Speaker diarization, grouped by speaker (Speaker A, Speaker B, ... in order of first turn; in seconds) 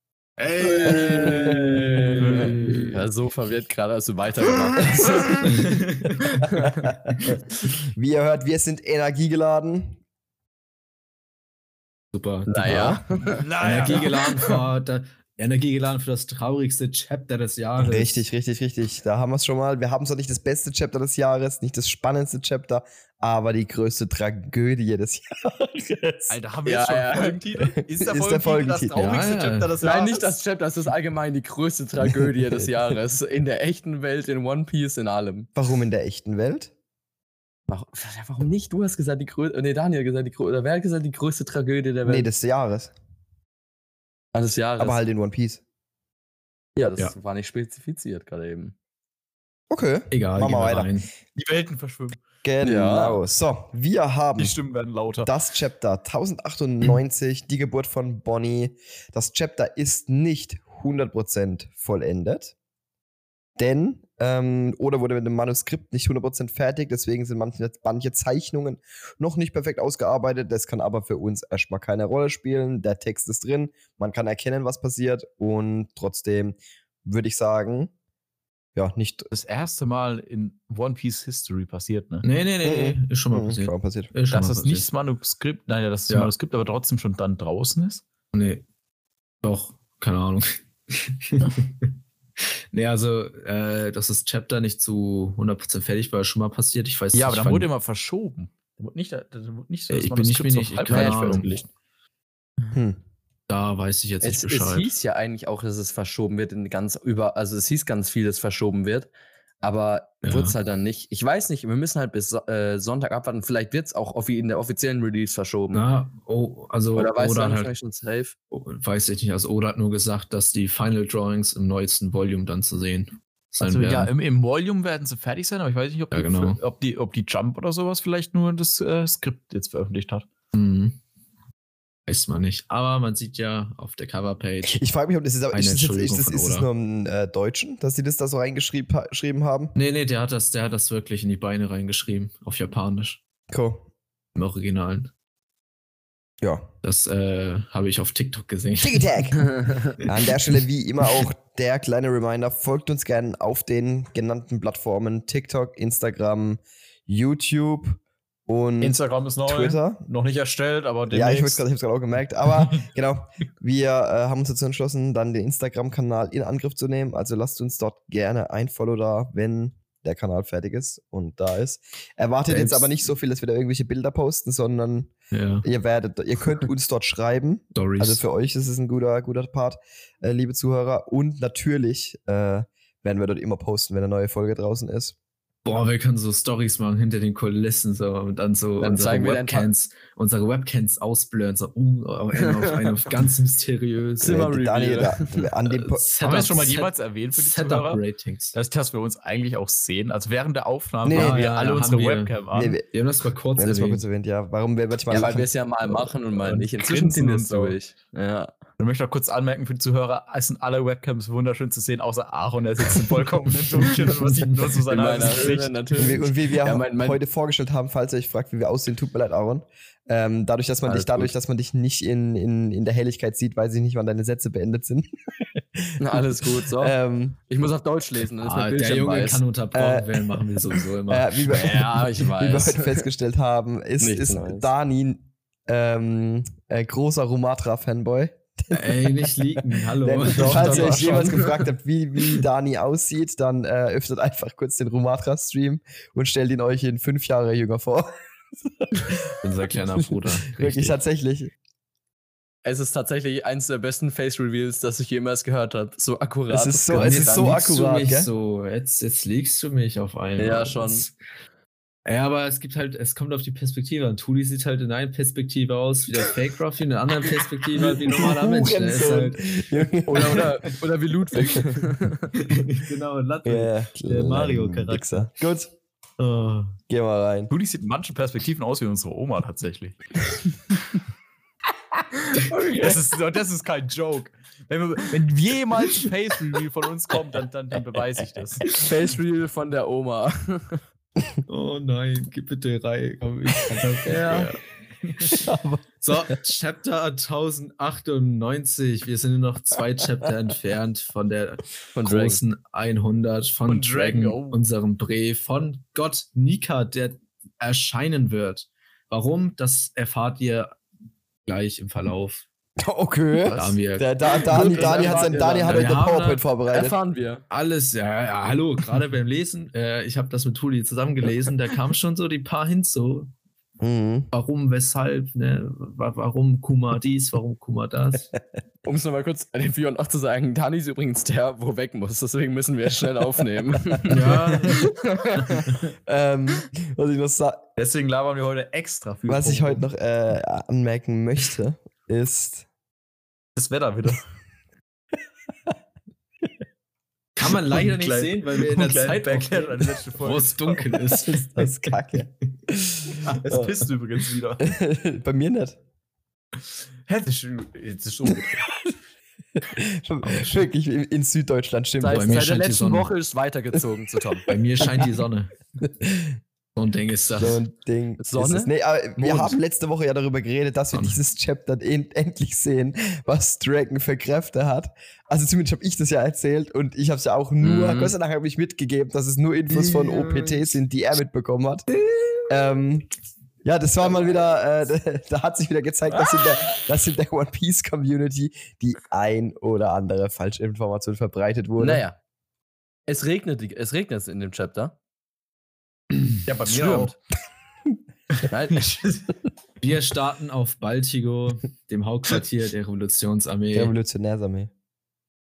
Speaker A: 0.4-3.0, 5.5-6.1, 12.1-18.2, 29.0-29.8, 50.1-51.1, 82.2-84.9, 88.3-88.6, 89.4-91.9, 92.7-97.7, 99.9-101.5, 103.5-104.9, 110.2-110.6, 115.7-117.7, 118.5-124.1, 126.1-126.6, 130.5-131.0, 132.1-134.8, 135.5-136.7, 139.8-143.2, 144.3-145.1, 146.8-150.1, 172.5-172.9, 175.3-175.7, 177.8-178.2, 185.7-194.4, 195.7-198.6, 201.1-202.4, 202.9-204.0, 213.8-215.4, 228.4-232.2, 238.7-241.7, 249.4-251.0, 256.9-261.1, 262.1-270.5, 272.4-275.3, 276.2-276.8, 291.5-294.6, 295.2-295.5, 296.0-310.8, 311.4-312.4, 313.6-316.4, 317.5-323.3, 324.3-328.3, 334.1-334.8, 347.4-352.0, 360.2-360.6, 362.1-363.1, 364.5-365.5, 366.8-367.6, 369.2-369.5, 370.9-371.2, 379.7-380.7, 382.1-382.3, 399.8-403.9
Speaker B: 0.9-1.5, 4.8-5.5, 6.6-7.4, 7.9-10.0, 17.8-26.4, 27.8-29.0, 32.1-32.7, 35.5-36.7, 42.0-42.9, 44.8-45.6, 49.7-50.9, 52.4-54.6, 55.2-62.5, 63.6-77.9, 78.8-79.3, 82.6-84.1, 102.7-103.0, 134.6-139.7, 143.5-143.9, 146.4-146.7, 148.8-160.0, 161.1-175.1, 175.6-185.2, 194.2-196.1, 201.0-201.5, 202.5-202.8, 203.6-205.5, 216.0-226.2, 226.8-227.4, 229.7-248.1, 248.7-249.4, 250.0-251.5, 256.5-258.3, 267.8-270.4, 273.4-275.7, 276.9-277.5, 295.4-296.4, 312.8-317.0, 323.8-324.3, 336.1-337.6, 339.3-342.7, 351.2-353.9, 354.6-355.8, 358.3-358.6, 359.6-362.5, 364.8-365.1, 365.8-366.4, 367.4-381.9, 382.5-383.1, 383.6-392.0, 403.7-404.7
Speaker C: 0.9-1.3, 2.2-2.5, 5.0-6.1, 13.4-14.2, 26.3-30.4, 51.3-52.2, 54.4-55.3, 79.3-82.2, 84.3-88.0, 97.1-101.7, 123.6-130.3, 158.8-161.6, 196.2-198.0, 198.6-202.8, 206.8-207.8, 208.8-215.7, 277.5-280.4, 282.3-288.7, 303.7-304.6, 337.8-339.9, 343.6-344.3, 347.7-351.0, 353.2-354.7, 357.1-358.7, 396.5-397.2, 398.7-399.2
Speaker D: 2.0-5.5, 6.2-6.9, 12.5-14.6, 26.6-27.4, 29.8-35.5, 37.7-42.3, 44.3-45.0, 46.8-48.8, 52.6-53.2, 100.9-101.4, 104.2-109.1, 109.6-115.8, 117.0-118.3, 188.8-189.7, 192.4-192.9, 194.2-195.5, 205.1-208.5, 214.9-217.2, 220.9-221.3, 226.0-227.0, 227.5-229.4, 231.5-233.1, 234.0-234.7, 240.3-241.5, 252.7-257.6, 260.4-261.1, 270.1-272.3, 288.8-290.8, 294.1-294.5, 301.9-302.4, 314.5-316.0, 316.7-317.4, 328.9-335.8, 362.0-364.4, 368.2-368.7, 377.6-378.1, 391.8-392.2, 393.1-395.0, 396.7-397.1, 398.5-399.0